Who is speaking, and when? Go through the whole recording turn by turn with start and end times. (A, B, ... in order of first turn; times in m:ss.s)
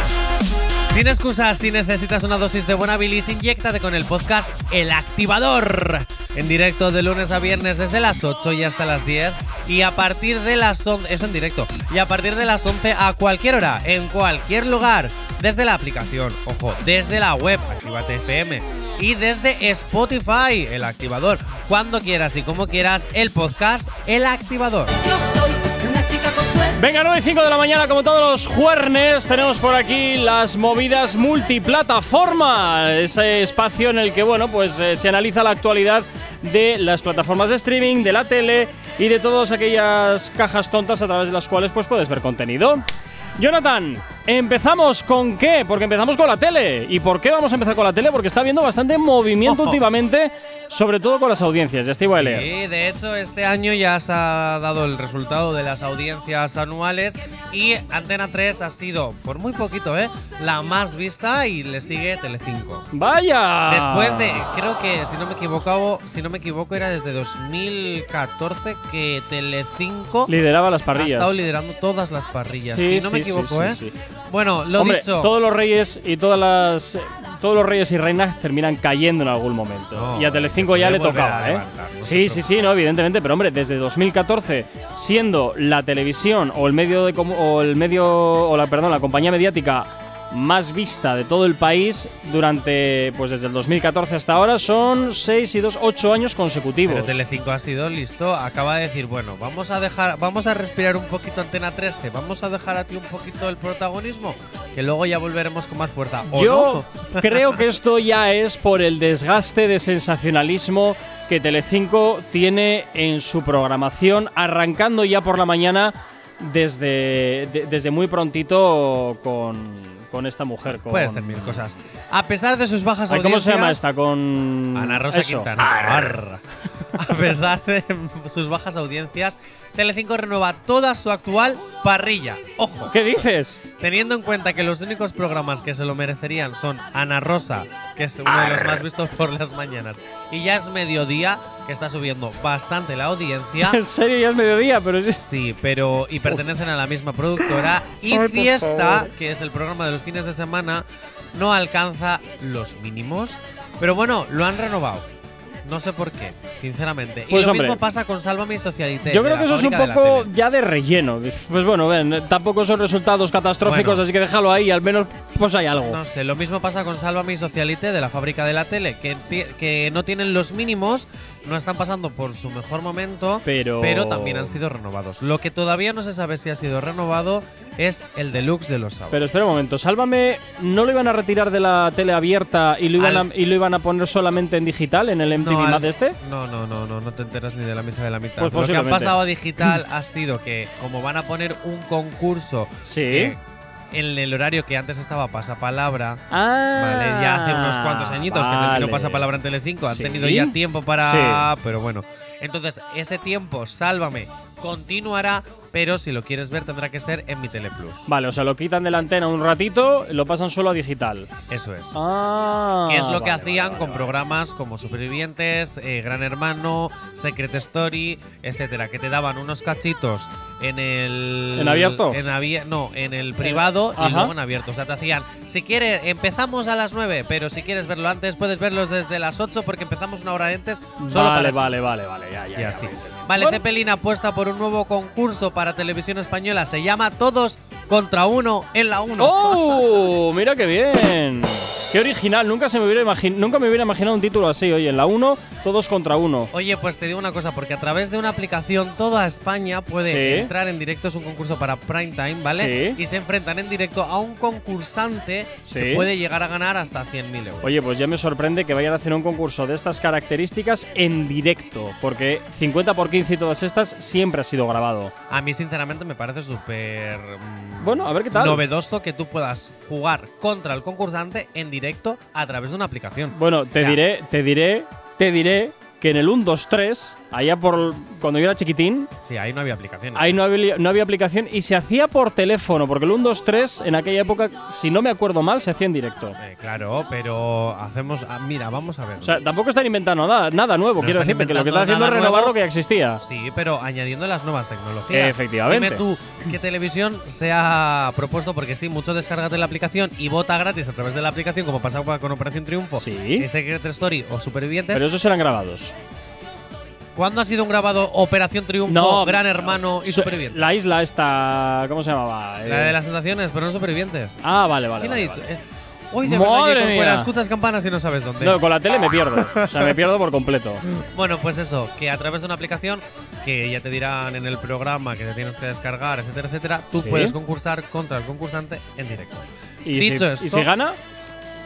0:00.9-0:25.0 A
0:26.8-0:42.8 B
0:43.4-0:52.5 B
0:49.4-0:49.8 A
0:52.1-1:02.9 A
1:02.9-1:04.4 B
1:03.7-1:10.3 A
1:10.3-1:11.4 B
1:10.9-1:13.8 A
1:12.6-1:13.9 B
1:14.3-1:15.3 A
1:14.8-1:37.2 B
1:19.9-1:22.6 A
1:36.8-1:47.5 A
1:46.3-2:01.6 B
2:00.7-2:03.8 A
2:03.1-2:05.5 B
2:04.7-2:12.9 A
2:12.9-2:13.6 B
2:13.8-2:23.8 A
2:23.6-2:25.2 B
2:25.2-2:35.0 A
2:28.1-2:29.0 B
2:35.6-2:40.3 A
2:37.3-2:37.8 B
2:39.0-2:46.0 B
2:43.6-2:44.0 A
2:45.8-2:59.3 A
2:53.4-2:54.6 B
2:59.1-3:06.2 B
3:03.0-3:03.2 A
3:05.4-3:13.4 A
3:08.4-3:09.1 B
3:12.8-3:13.3 B
3:13.9-3:16.2 A
3:16.3-3:19.3 B
3:16.8-3:28.1 A
3:19.8-3:21.4 B
3:28.0-3:31.3 B
3:31.5-3:32.0 A
3:31.9-3:34.1 B
3:32.9-3:51.7 A
3:41.6-3:42.2 B
3:43.4-3:44.3 B
3:51.0-3:53.6 B
3:52.6-3:59.8 A
3:59.2-4:06.5 B
4:06.5-4:17.7 A
4:10.0-4:10.5 B
4:12.5-4:13.0 B
4:15.6-4:16.1 B
4:17.6-4:25.1 B
4:25.3-4:34.0 A
4:27.8-4:28.6 B
4:33.3-4:39.1 B
4:39.2-4:40.4 A
4:40.1-4:46.4 B
4:46.4-4:49.4 A
4:49.2-4:53.2 B
4:51.0-4:52.5 A
4:53.2-5:05.0 A
4:55.1-4:56.0 B
5:03.0-5:03.4 B
5:04.9-5:05.9 B
5:07.2-5:10.7 A
5:08.9-5:13.0 B
5:12.6-5:14.4 A
5:14.4-5:15.4 B
5:15.0-5:18.6 A
5:16.2-5:17.3 B
5:18.4-5:20.8 B
5:19.4-5:19.9 A
5:21.0-5:30.7 A
5:26.9-5:27.4 B
5:29.8-5:31.0 B